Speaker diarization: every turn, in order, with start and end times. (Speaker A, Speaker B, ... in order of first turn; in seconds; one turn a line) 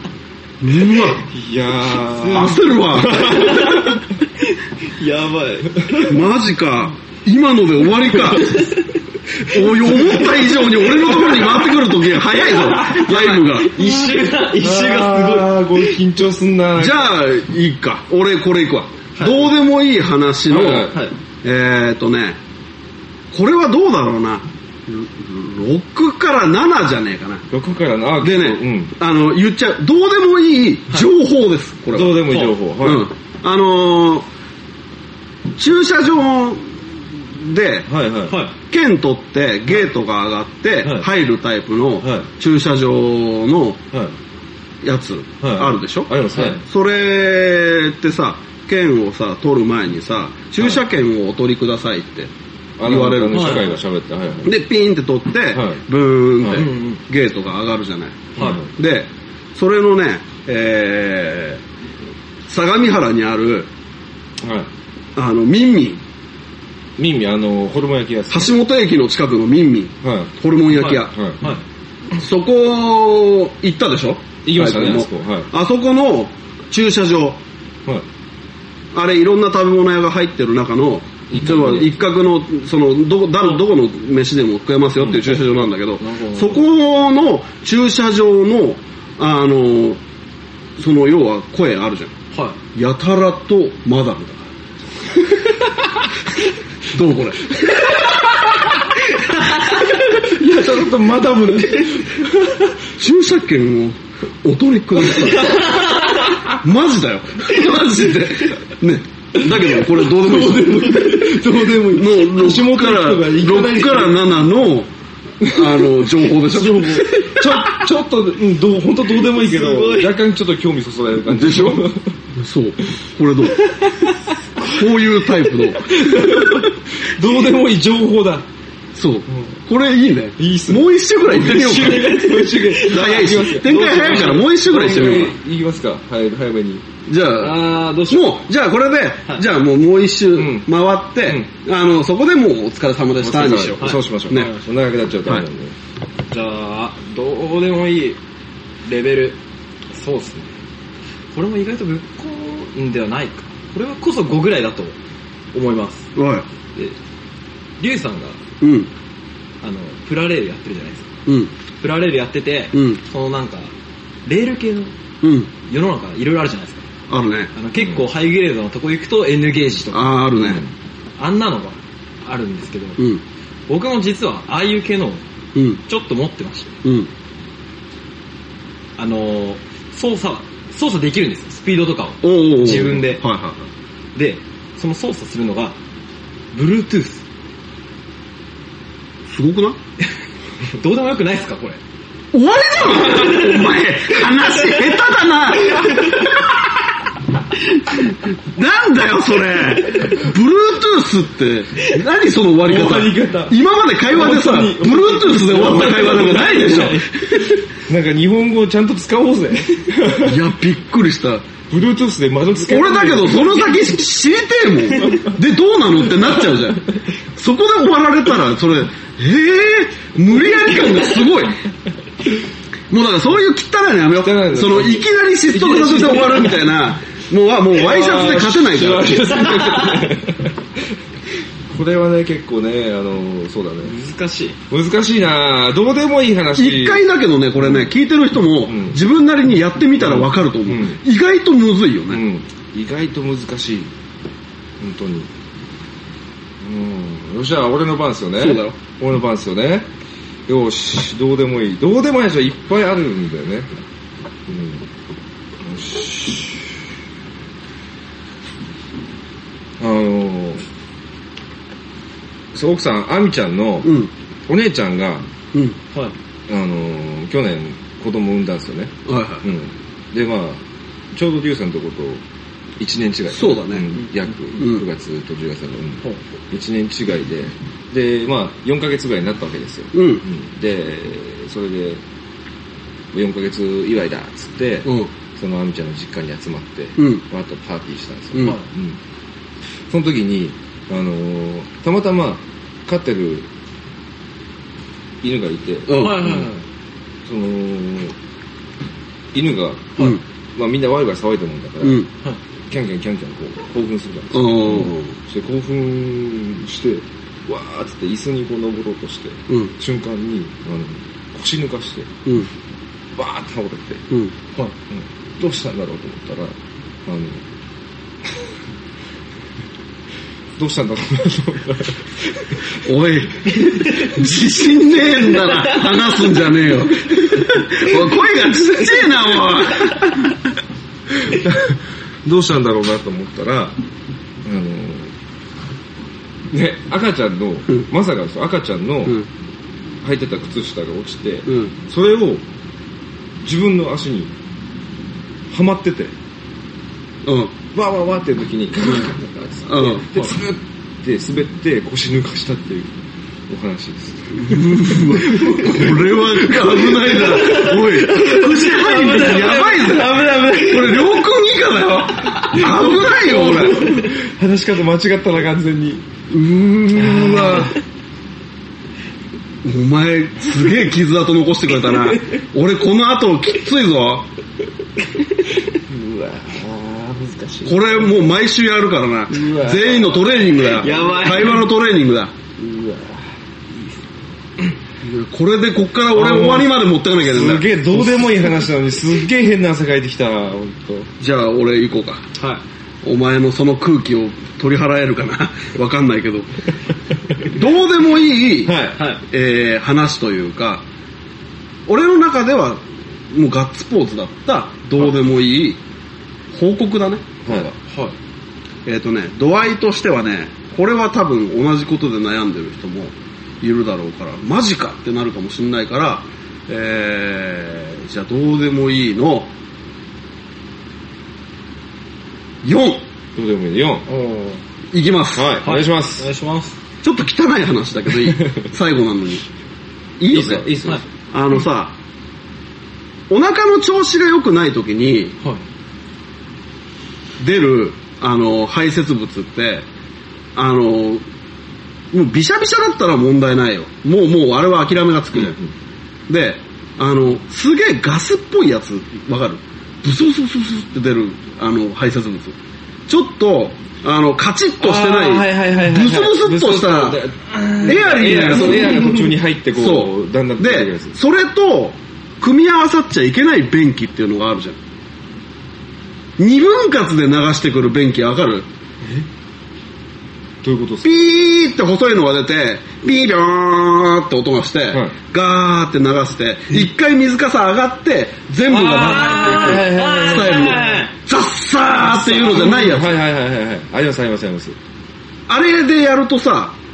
Speaker A: 0.6-1.2
Speaker B: 1.2-4.0
Speaker C: 2.0-6.2
Speaker A: 2.3-3.8
Speaker A: 6.0-8.7
Speaker C: 8.2-9.0
Speaker A: 9.4-13.8
Speaker C: 9.8-11.7
Speaker C: 12.3-16.0
Speaker B: 14.6-17.1
Speaker A: 16.8-22.4
Speaker B: 20.5-21.1
Speaker C: 20.9-21.1
Speaker A: 23.3-27.5
Speaker B: 27.5-28.9
Speaker A: 28.2-32.3
Speaker B: 31.9-33.1
Speaker C: 32.3-32.5
Speaker A: 32.8-34.3
Speaker A: 35.6-36.8
Speaker A: 37.3-37.9
Speaker B: 37.9-38.4
Speaker C: 38.3-38.5
Speaker A: 38.6-43.8
Speaker B: 42.0-42.3
Speaker A: 44.8-52.3
Speaker B: 45.4-46.6
Speaker C: 46.3-46.6
Speaker B: 52.8-54.5
Speaker A: 52.8-53.8
Speaker C: 53.3-53.7
Speaker A: 54.4-61.6
Speaker B: 55.5-55.8
Speaker B: 56.4-56.7
Speaker C: 56.5-57.0
Speaker B: 58.4-58.7
Speaker A: 62.5-63.7
Speaker B: 64.4-64.7
Speaker A: 65.2-66.0
Speaker B: 67.0-68.5
Speaker A: 68.3-71.1
Speaker B: 70.0-70.3
Speaker C: 70.7-71.6
Speaker B: 71.0-71.4
Speaker A: 72.2-77.4
Speaker B: 74.4-75.5
Speaker A: 78.9-90.0
Speaker B: 81.3-82.0
Speaker C: 86.0-86.6
Speaker A: 90.8-92.1
Speaker A: 92.8-94.5
Speaker A: 96.9-97.9
Speaker C: 99.3-99.8
Speaker B: 100.2-102.8
Speaker A: 103.0-105.9
Speaker C: 105.2-106.3
Speaker A: 106.5-111.2
Speaker B: 109.9-114.2
Speaker C: 110.5-111.4
Speaker A: 111.9-114.9
Speaker A: 115.4-117.1
Speaker B: 115.4-115.9
Speaker B: 116.6-122.2
Speaker C: 116.6-117.9
Speaker C: 119.1-120.1
Speaker A: 121.3-123.7
Speaker C: 123.7-124.8
Speaker A: 124.6-126.0
Speaker B: 125.9-128.5
Speaker A: 128.9-132.1
Speaker B: 129.3-129.6
Speaker B: 130.4-136.8
Speaker C: 131.4-135.3
Speaker A: 132.8-135.3
Speaker A: 137.1-144.5
Speaker C: 137.4-138.4
Speaker B: 140.3-140.7
Speaker B: 143.2-145.8
Speaker C: 143.8-144.6
Speaker C: 146.3-148.2
Speaker C: 148.8-149.4
Speaker C: 149.9-150.6
Speaker C: 151.3-155.0
Speaker C: 155.5-156.1
Speaker A: 156.2-156.5
Speaker C: 157.8-158.4
Speaker A: 158.6-158.9
Speaker C: 159.6-161.1
Speaker A: 161.3-161.5
Speaker C: 161.8-163.7
Speaker A: 162.7-163.0
Speaker C: 164.2-164.9
Speaker A: 165.2-165.5
Speaker C: 165.7-166.9
Speaker A: 167.1-167.5
Speaker C: 167.6-170.1
Speaker B: 167.8-168.1
Speaker A: 169.9-170.6
Speaker B: 170.4-170.7
Speaker C: 171.2-173.0
Speaker C: 173.7-175.2
Speaker A: 175.6-175.8
Speaker C: 175.9-176.8
Speaker A: 176.8-177.1
Speaker C: 179.0-183.2
Speaker A: 182.2-183.6
Speaker C: 184.2-185.8
Speaker C: 186.5-187.2
Speaker A: 189.3-189.8
Speaker C: 190.8-191.8
Speaker A: 192.3-196.4
Speaker C: 192.9-193.8
Speaker C: 195.7-196.4
Speaker A: 197.8-207.0
Speaker B: 202.7-206.9
Speaker C: 205.6-207.6
Speaker B: 207.9-210.4
Speaker A: 210.2-211.5
Speaker B: 211.7-213.8
Speaker A: 212.6-221.6
Speaker C: 220.8-221.1
Speaker A: 222.9-229.5
Speaker B: 224.2-226.7
Speaker B: 227.7-231.0
Speaker C: 229.3-230.2
Speaker B: 231.7-234.0
Speaker C: 233.8-234.6
Speaker B: 234.7-237.0
Speaker A: 236.6-242.2
Speaker B: 237.6-237.9
Speaker B: 238.7-239.0
Speaker B: 240.0-241.0
Speaker B: 242.1-243.9
Speaker B: 244.8-245.3
Speaker B: 246.6-249.9
Speaker A: 248.4-248.8
Speaker B: 250.5-253.7
Speaker B: 254.5-254.8
Speaker B: 255.6-256.8
Speaker B: 259.8-260.7
Speaker B: 262.5-263.9
Speaker A: 263.8-264.1
Speaker B: 264.5-265.3
Speaker B: 266.5-272.2
Speaker A: 269.1-269.4
Speaker B: 272.8-282.0
Speaker A: 273.3-274.0
Speaker A: 274.6-274.8
Speaker A: 279.9-280.2
Speaker B: 283.1-289.0
Speaker A: 287.0-287.2
Speaker A: 288.3-288.6
Speaker B: 289.9-293.5
Speaker B: 295.2-296.5
Speaker A: 295.9-296.3
Speaker C: 296.0-296.6
Speaker B: 297.3-298.2
Speaker B: 299.3-302.0
Speaker A: 301.8-302.1
Speaker B: 302.7-312.1
Speaker A: 304.3-305.2
Speaker B: 313.2-314.1
Speaker B: 314.9-317.4
Speaker B: 320.6-322.6
Speaker A: 322.8-330.4
Speaker B: 331.1-333.8
Speaker B: 334.4-335.1
Speaker B: 336.5-339.2
Speaker B: 340.0-342.4
Speaker A: 341.5-341.7
Speaker B: 343.4-344.3
Speaker B: 345.5-346.1
Speaker A: 347.2-347.5
Speaker B: 347.7-357.7
Speaker A: 349.7-350.1
Speaker A: 354.4-363.9
Speaker C: 357.3-361.2
Speaker B: 359.1-360.7
Speaker B: 362.6-366.1
Speaker C: 363.3-364.1
Speaker A: 366.3-367.8
Speaker B: 366.9-367.8
Speaker A: 369.6-374.3
Speaker C: 375.1-375.5
Speaker B: 375.6-378.1
Speaker A: 377.6-382.4
Speaker B: 379.3-381.0
Speaker C: 380.7-381.7
Speaker B: 382.6-383.3
Speaker A: 385.0-388.0
Speaker B: 386.1-391.1
Speaker A: 391.2-392.2
Speaker A: 393.0-396.5
Speaker A: 397.4-400.9
Speaker B: 398.6-399.0
Speaker C: 399.0-399.2
Speaker A: 401.9-405.8
Speaker A: 406.5-407.2
Speaker B: 407.4-407.8
Speaker C: 407.9-408.1
Speaker A: 408.9-419.5
Speaker A: 422.6-423.0
Speaker B: 423.4-424.1
Speaker C: 424.1-424.6
Speaker A: 424.9-425.6
Speaker B: 425.4-426.3
Speaker C: 425.6-426.8
Speaker A: 427.0-429.4
Speaker B: 428.2-428.6
Speaker A: 430.2-430.8
Speaker B: 430.3-431.0
Speaker A: 431.3-431.9
Speaker A: 433.3-435.4
Speaker A: 437.4-439.9
Speaker A: 440.6-441.2
Speaker A: 442.1-445.6
Speaker B: 445.4-445.6
Speaker A: 446.3-452.6
Speaker A: 453.1-457.2
Speaker B: 454.8-461.1
Speaker A: 457.8-459.2
Speaker C: 458.4-459.3
Speaker A: 459.7-464.8
Speaker A: 466.4-468.7
Speaker B: 470.6-471.3
Speaker A: 471.0-483.2
Speaker C: 478.7-481.1
Speaker B: 478.9-481.1
Speaker B: 482.0-484.8
Speaker A: 485.5-486.8